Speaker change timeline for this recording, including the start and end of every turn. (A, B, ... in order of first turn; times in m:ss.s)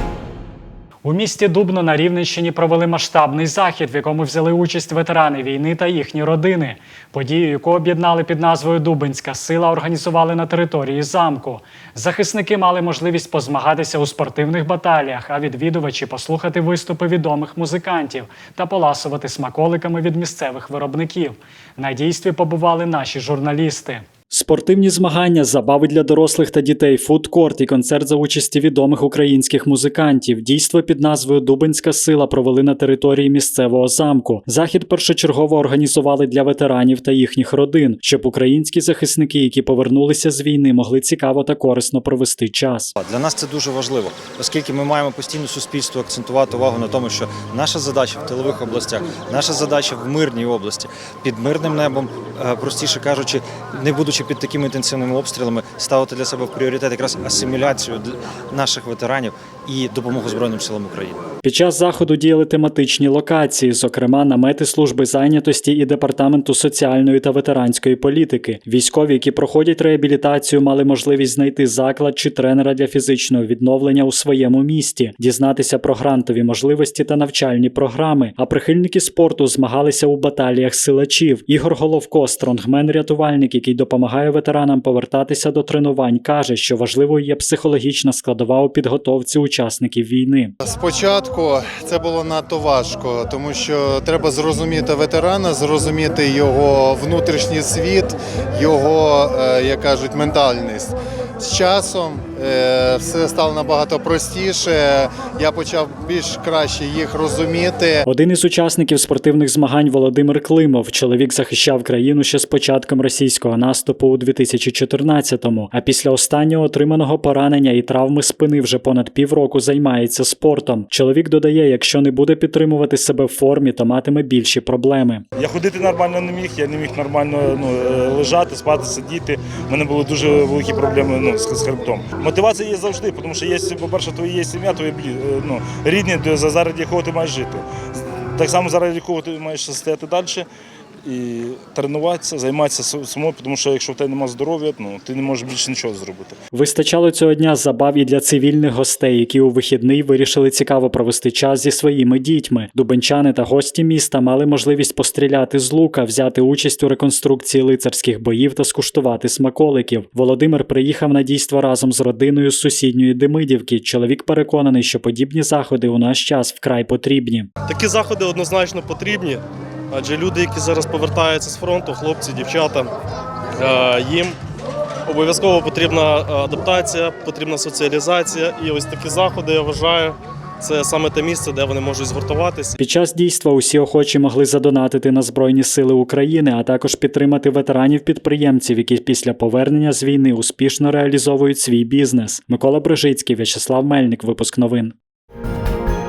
0:01.0-0:42.9 A
0:43.0-1:01.2 B
1:01.4-1:30.5 A
1:36.2-1:38.1 C
1:40.1-1:40.5 C
1:41.5-1:42.5 C
1:43.2-1:44.5 C
1:46.5-1:47.0 C
1:48.0-2:05.2 A
2:05.4-2:17.6 D
2:18.4-2:20.4 D
2:21.0-2:26.4 D
2:26.5-2:47.5 A
2:47.7-2:52.9 E
2:53.6-2:54.4 E
2:55.1-3:02.7 E
3:02.8-3:14.9 A